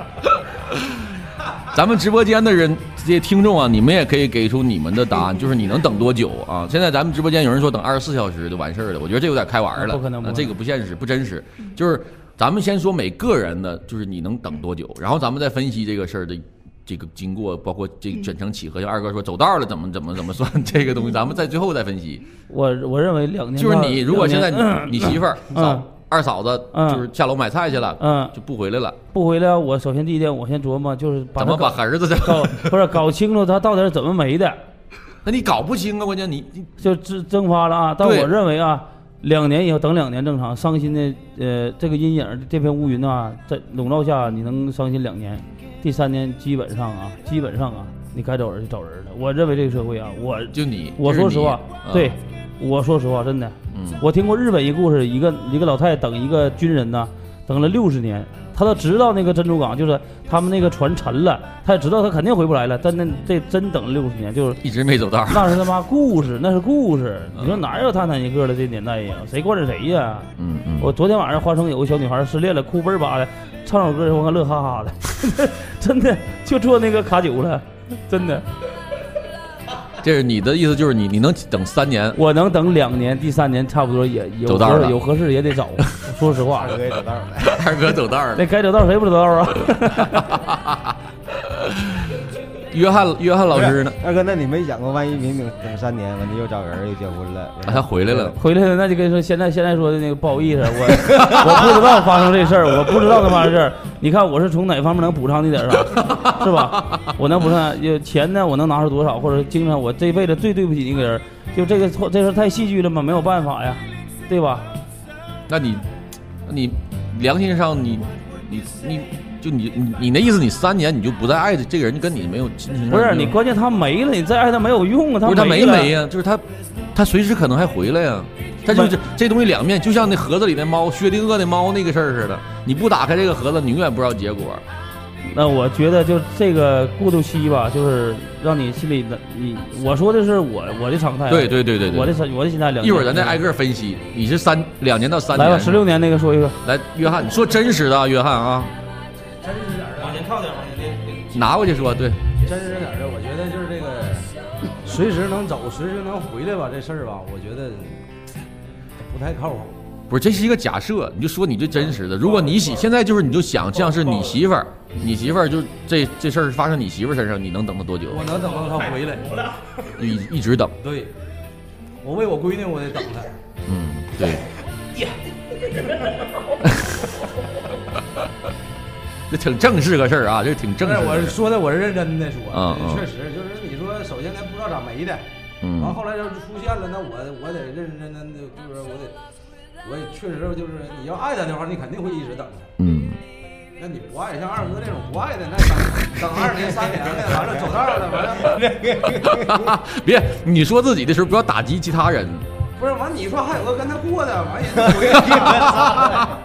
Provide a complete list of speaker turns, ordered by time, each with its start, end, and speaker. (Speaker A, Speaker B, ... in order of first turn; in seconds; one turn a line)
Speaker A: 0.5-22.2
Speaker B: 9.7-10.5
Speaker B: 22.5-25.9
Speaker A: 23.6-29.0
Speaker B: 26.7-27.1
Speaker B: 28.0-28.3
Speaker B: 29.1-34.6
Speaker A: 31.4-32.7
Speaker A: 35.2-36.7
Speaker B: 36.8-64.6
Speaker A: 38.0-38.3
Speaker A: 50.5-52.1
Speaker A: 53.7-54.0
Speaker A: 64.6-65.6
Speaker B: 65.3-78.5
Speaker A: 67.4-67.6
Speaker A: 70.4-70.9
Speaker A: 80.0-82.2
Speaker B: 82.2-86.7
Speaker A: 84.5-85.0
Speaker C: 86.5-87.9
Speaker A: 87.4-88.5
Speaker B: 88.3-90.2
Speaker A: 90.3-90.9
Speaker A: 91.5-94.0
Speaker C: 93.5-98.4
Speaker A: 97.7-98.4
Speaker B: 98.4-114.7
Speaker A: 101.1-101.5
Speaker A: 105.9-107.1
Speaker A: 115.5-115.9
Speaker A: 116.5-123.4
Speaker B: 122.9-126.0
Speaker A: 125.2-134.6
Speaker B: 128.7-128.9
Speaker B: 135.2-143.4
Speaker A: 141.3-142.2
Speaker A: 142.8-145.8
Speaker B: 145.3-146.6
Speaker A: 146.6-148.7
Speaker D: 149.4-150.6
Speaker B: 150.0-151.3
Speaker A: 151.3-152.2
Speaker D: 152.4-158.1
Speaker D: 159.0-159.8
Speaker A: 160.1-168.3
Speaker D: 161.9-162.9
Speaker D: 163.9-164.4
Speaker D: 168.1-169.7
Speaker A: 170.0-170.8
Speaker D: 170.8-171.1
Speaker D: 172.0-173.3
Speaker A: 173.7-174.4
Speaker A: 176.6-177.1
Speaker A: 179.3-181.4
Speaker D: 180.8-185.3
Speaker A: 182.5-183.1
Speaker A: 185.6-186.0
Speaker D: 185.8-189.2
Speaker D: 189.8-192.7
Speaker A: 192.8-193.2
Speaker D: 193.8-198.8
Speaker C: 196.5-197.4
Speaker C: 198.4-199.8
Speaker A: 199.0-202.5
Speaker D: 202.8-206.3
Speaker C: 205.4-206.1